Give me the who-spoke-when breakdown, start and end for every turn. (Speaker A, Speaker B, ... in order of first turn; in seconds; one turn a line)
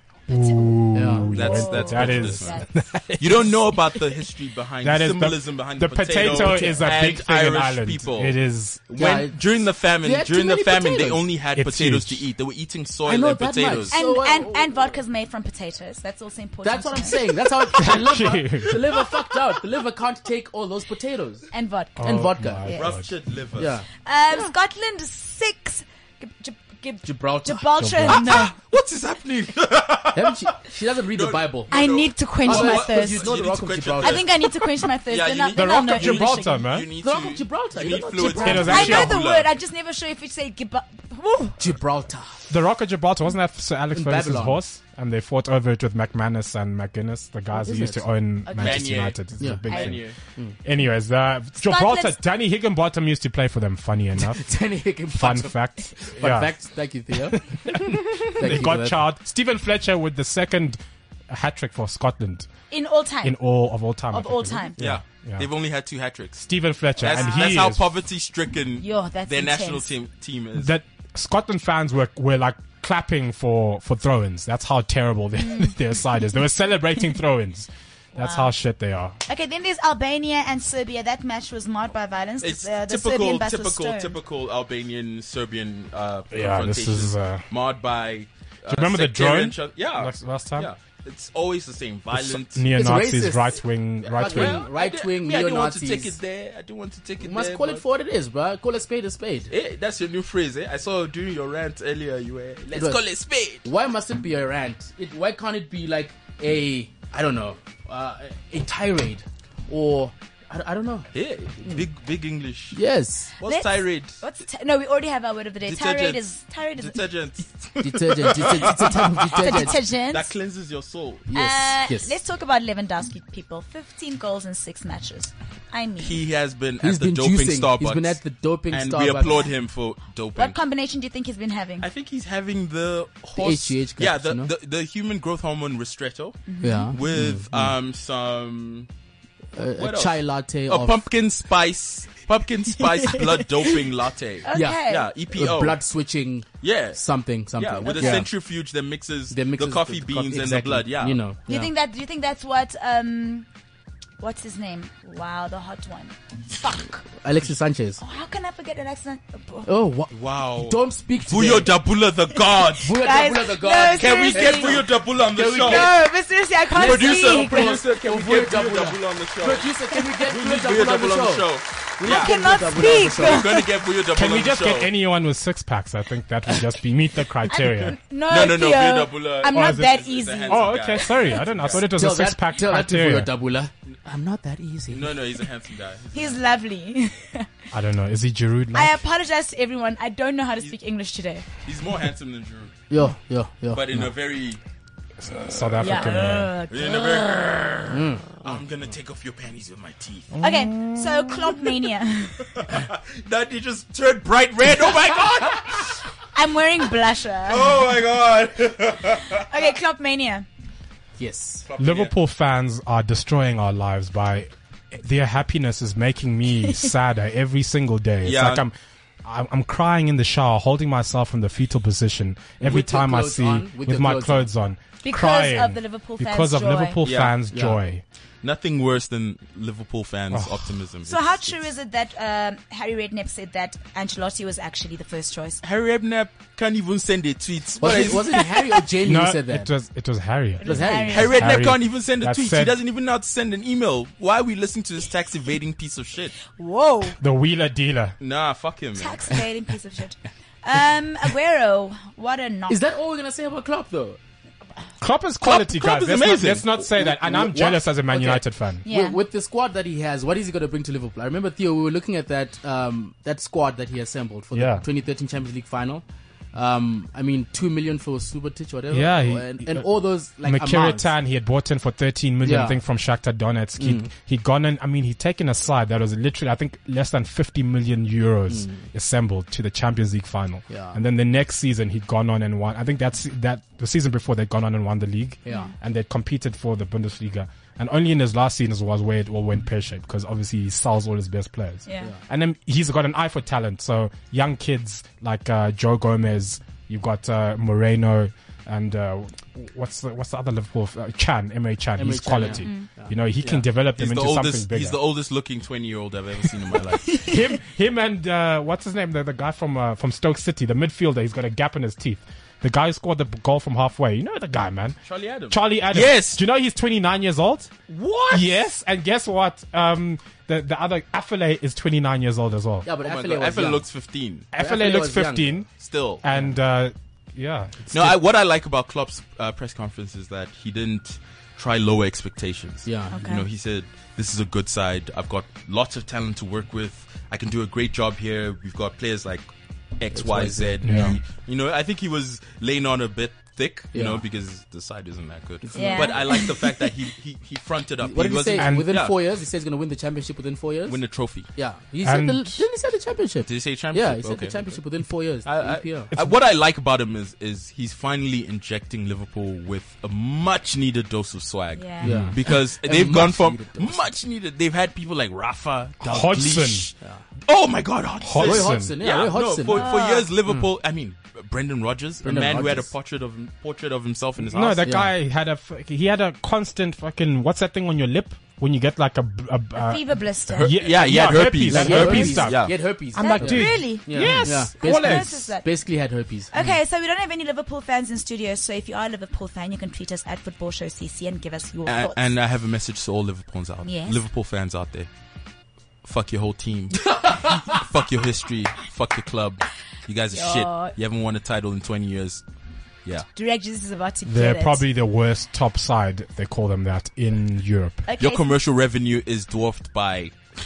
Speaker A: 0.3-2.7
Speaker B: 0.3-3.6
Speaker C: 0.9-1.3
Speaker D: 1.3-2.6
Speaker D: 3.2-8.4
Speaker B: 4.8-8.8
Speaker C: 6.2-6.8
Speaker D: 8.9-14.0
Speaker C: 9.0-9.3
Speaker C: 10.0-11.2
Speaker B: 11.6-12.2
Speaker C: 13.0-15.0
Speaker A: 13.9-17.2
Speaker C: 16.6-21.5
Speaker B: 17.7-18.8
Speaker A: 21.5-22.9
Speaker B: 22.0-23.1
Speaker C: 22.0-22.6
Speaker D: 22.7-23.7
Speaker C: 23.6-23.9
Speaker A: 24.0-28.6
Speaker C: 27.0-27.9
Speaker B: 27.8-28.4
Speaker D: 28.1-34.5
Speaker C: 30.1-31.8
Speaker A: 31.7-33.3
Speaker C: 32.4-34.3
Speaker A: 34.0-36.5
Speaker D: 35.0-39.5
Speaker B: 35.5-36.9
Speaker C: 37.0-39.0
Speaker A: 38.2-41.6
Speaker B: 38.4-39.2
Speaker C: 41.6-42.5
Speaker B: 42.5-50.0
Speaker C: 43.9-44.6
Speaker C: 47.5-48.0
Speaker A: 48.5-48.9
Speaker D: 48.5-50.1
Speaker C: 49.4-49.6
Speaker A: 49.7-50.0
Speaker B: 50.6-54.4
Speaker A: 51.6-52.2
Speaker C: 54.2-59.0
Speaker B: 55.1-56.5
Speaker B: 57.1-62.5
Speaker A: 62.7-63.4
Speaker B: 63.2-65.5
Speaker A: 64.1-64.8
Speaker D: 64.8-66.5
Speaker B: 66.4-67.9
Speaker D: 67.0-70.7
Speaker A: 67.1-67.5
Speaker A: 68.8-69.9
Speaker B: 70.5-79.2
Speaker A: 75.4-75.7
Speaker A: 78.2-78.5
Speaker A: 79.2-84.2
Speaker D: 82.4-92.7
Speaker B: 86.3-87.4
Speaker B: 88.7-90.7
Speaker B: 92.1-94.6
Speaker C: 92.7-93.6
Speaker D: 94.0-97.8
Speaker C: 94.1-96.2
Speaker C: 97.2-99.5
Speaker D: 99.5-103.7
Speaker C: 102.7-103.0
Speaker C: 103.6-111.1
Speaker D: 111.1-112.8
Speaker C: 112.7-113.3
Speaker D: 113.4-114.2
Speaker A: 113.4-117.0
Speaker D: 115.6-116.2
Speaker D: 116.8-121.3
Speaker C: 117.8-119.8
Speaker A: 119.3-120.3
Speaker C: 121.3-122.1
Speaker A: 121.3-126.2
Speaker D: 126.0-130.6
Speaker C: 126.8-129.5
Speaker A: 130.3-131.9
Speaker D: 131.8-138.9
Speaker C: 133.4-134.5
Speaker A: 136.5-136.9
Speaker C: 136.6-137.7
Speaker C: 139.5-141.0
Speaker D: 139.8-145.8
Speaker A: 142.9-143.8
Speaker A: 144.4-145.1
Speaker C: 144.5-148.3
Speaker D: 146.6-147.0
Speaker D: 147.5-151.2
Speaker A: 147.9-148.2
Speaker C: 149.3-151.7
Speaker A: 151.5-153.4
Speaker A: 154.2-157.0
Speaker C: 157.1-158.0
Speaker A: 158.0-159.7
Speaker C: 159.7-161.7
Speaker D: 160.1-162.9
Speaker C: 162.8-166.0
Speaker A: 162.9-164.8
Speaker D: 164.0-165.9
Speaker A: 165.6-167.8
Speaker C: 166.7-173.6
Speaker D: 166.8-169.7
Speaker D: 170.2-174.9
Speaker A: 172.0-173.7
Speaker B: 174.1-178.0
Speaker A: 177.5-181.4
Speaker D: 178.3-181.8
Speaker B: 179.5-183.3
Speaker C: 181.8-185.1
Speaker D: 184.9-186.4
Speaker A: 186.1-187.5
Speaker B: 187.7-189.0
Speaker A: 188.7-191.4
Speaker D: 191.6-192.7
Speaker C: 192.9-194.1
Speaker D: 193.7-194.6
Speaker B: 195.2-196.5
Speaker D: 195.6-196.0
Speaker A: 195.8-197.2
Speaker D: 196.7-200.3
Speaker C: 197.9-198.6
Speaker B: 200.3-201.8
Speaker A: 200.4-202.5
Speaker D: 202.5-206.0
Speaker A: 206.3-207.8
Speaker D: 207.5-209.6
Speaker A: 209.3-210.4
Speaker C: 211.2-211.7
Speaker D: 211.7-212.1
Speaker B: 211.8-228.0
Speaker D: 218.2-218.6
Speaker C: 222.6-224.5
Speaker A: 225.0-227.0
Speaker D: 227.0-227.4
Speaker C: 227.5-227.8
Speaker D: 228.4-231.6
Speaker B: 230.3-230.7
Speaker A: 231.1-235.6
Speaker D: 235.6-238.5
Speaker C: 237.8-239.7
Speaker B: 239.0-242.8
Speaker A: 240.6-241.6
Speaker C: 240.6-241.3
Speaker D: 241.1-246.4
Speaker A: 246.5-247.2
Speaker B: 247.2-248.2
Speaker D: 248.2-249.3
Speaker A: 248.9-252.8
Speaker C: 252.7-254.2
Speaker B: 255.0-258.8
Speaker D: 255.4-256.9
Speaker C: 257.0-271.1
Speaker A: 258.8-259.2
Speaker B: 264.5-264.8
Speaker B: 268.9-269.9
Speaker B: 270.4-305.0
Speaker C: 272.4-272.8
Speaker C: 273.8-274.1
Speaker C: 278.5-278.9
Speaker C: 280.7-281.0
Speaker C: 285.4-285.7
Speaker A: 285.5-285.7
Speaker A: 291.9-292.1
Speaker C: 302.0-303.1
Speaker A: 302.6-302.9
Speaker D: 303.4-307.2
Speaker B: 307.2-315.0
Speaker D: 315.0-316.4
Speaker B: 315.5-317.7
Speaker D: 317.9-318.6
Speaker B: 318.3-322.9
Speaker C: 322.8-323.8
Speaker D: 323.0-324.5
Speaker B: 324.5-325.7
Speaker C: 324.5-325.6
Speaker D: 325.8-326.2
Speaker B: 326.2-328.2
Speaker D: 327.9-349.1
Speaker C: 332.9-333.2
Speaker A: 333.1-333.4
Speaker C: 340.1-341.1
Speaker B: 340.8-341.2
Speaker C: 343.9-344.2
Speaker C: 345.7-346.5
Speaker A: 345.7-346.6
Speaker C: 348.0-351.0
Speaker B: 348.6-349.0
Speaker D: 350.9-351.5
Speaker C: 351.5-356.1
Speaker B: 352.0-352.6
Speaker D: 353.4-354.8
Speaker D: 355.4-374.9
Speaker A: 361.8-362.1
Speaker B: 362.0-362.4
Speaker C: 362.0-364.1
Speaker B: 366.0-366.9
Speaker B: 368.2-368.9
Speaker C: 368.4-369.9
Speaker A: 369.6-370.3
Speaker C: 372.2-372.9
Speaker B: 374.4-385.4
Speaker C: 374.8-375.1
Speaker A: 379.8-380.8
Speaker D: 380.5-382.8
Speaker C: 381.3-386.5
Speaker A: 383.1-385.7
Speaker A: 386.5-392.2
Speaker D: 391.9-395.1
Speaker A: 393.8-394.2
Speaker D: 396.0-402.4
Speaker A: 400.3-400.9
Speaker A: 403.4-404.8
Speaker B: 404.2-408.0
Speaker A: 408.1-408.5
Speaker D: 408.2-410.4